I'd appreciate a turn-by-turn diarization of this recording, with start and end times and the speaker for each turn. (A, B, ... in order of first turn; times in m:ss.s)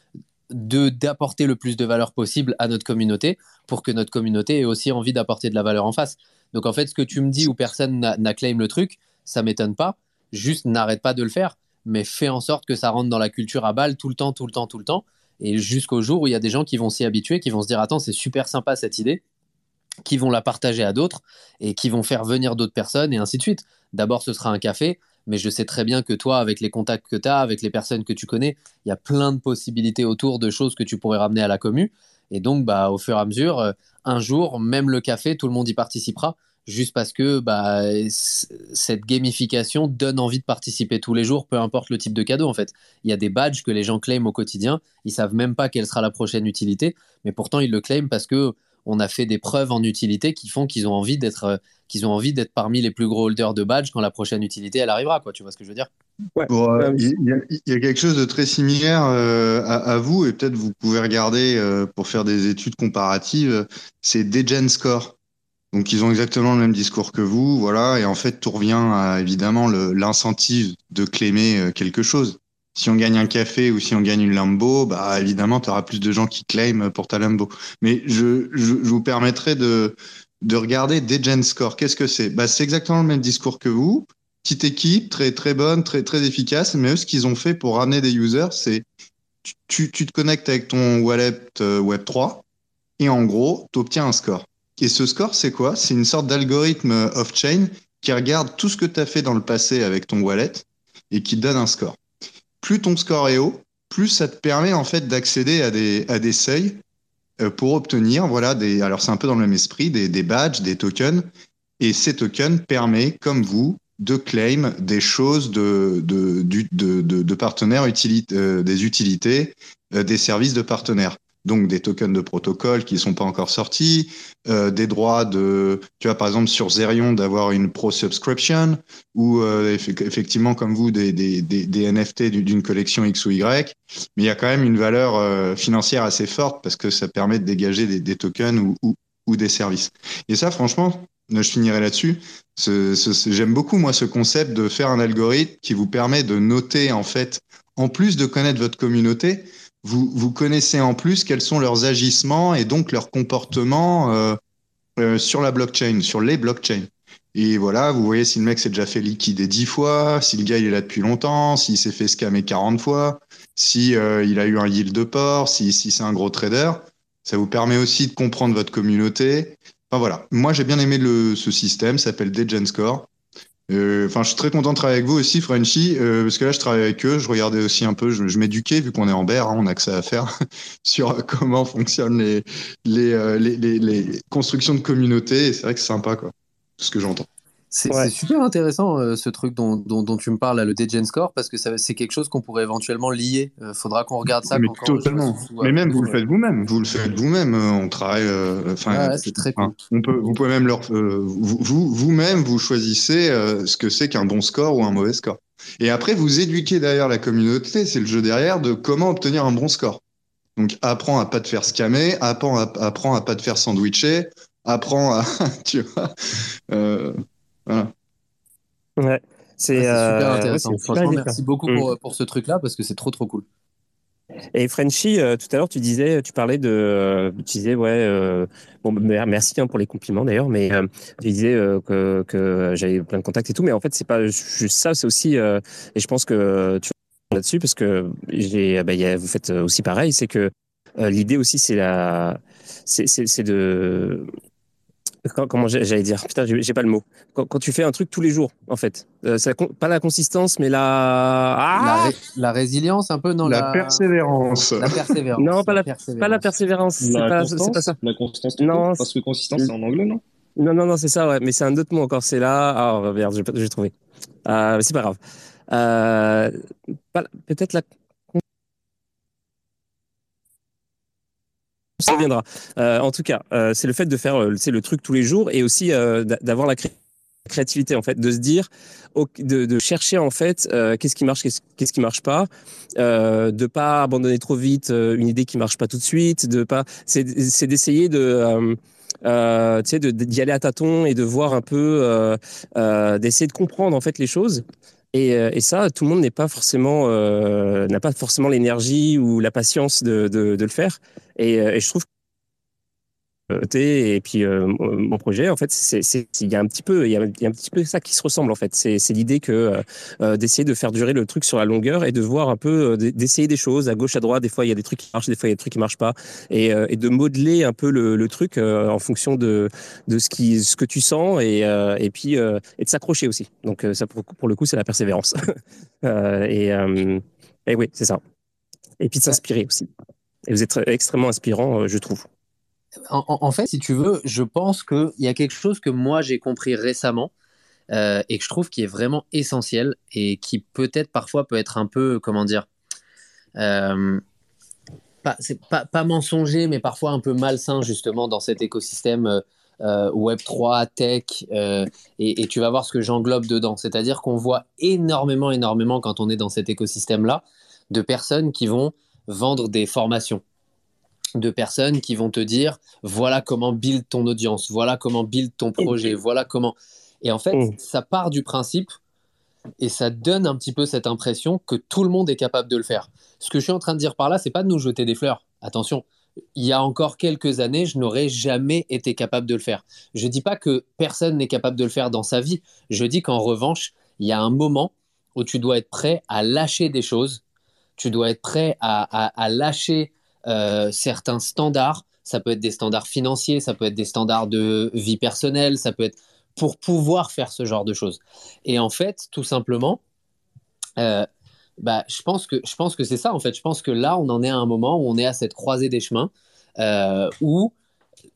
0:00.5-0:19.2 A
0:20.0-0:55.9 A
0:56.4-0:57.0 B
0:56.5-1:05.1 C
1:05.7-1:28.8 C
1:29.6-1:32.4 C
1:33.0-1:42.0 C
1:42.6-1:46.8 C
1:47.4-1:51.3 C
1:51.8-2:34.4 C
2:35.0-2:53.1 C
2:53.7-3:00.3 C
3:00.8-3:07.3 C
3:07.7-3:16.2 A
3:14.5-3:30.0 C
3:18.9-3:19.7 A
3:30.6-3:37.9 C
3:39.0-3:41.9 B
3:39.7-3:43.4 A
3:44.5-4:04.3 B
4:05.3-4:12.1 B
4:11.7-4:14.0 A
4:13.4-4:15.0 C
4:14.8-4:16.4 A
4:15.4-4:18.0 B
4:17.0-4:20.2 D
4:18.6-4:19.0 B
4:20.6-4:23.9 B
4:24.4-4:25.2 B
4:25.7-4:26.6 B
4:27.1-4:28.4 B
4:32.0-4:36.9 B
4:37.5-5:02.0 B
5:03.5-5:25.3 B
5:26.0-5:28.2 B
5:29.0-5:29.9 B
5:30.5-5:32.3 B
5:33.1-5:37.3 A
5:37.9-5:42.7 A
5:43.6-5:44.2 A
5:45.2-6:00.4 A
6:01.4-6:08.9 A
6:09.8-6:27.4 A
6:28.0-6:40.0 A
6:41.0-6:41.3 A
6:41.8-6:47.7 A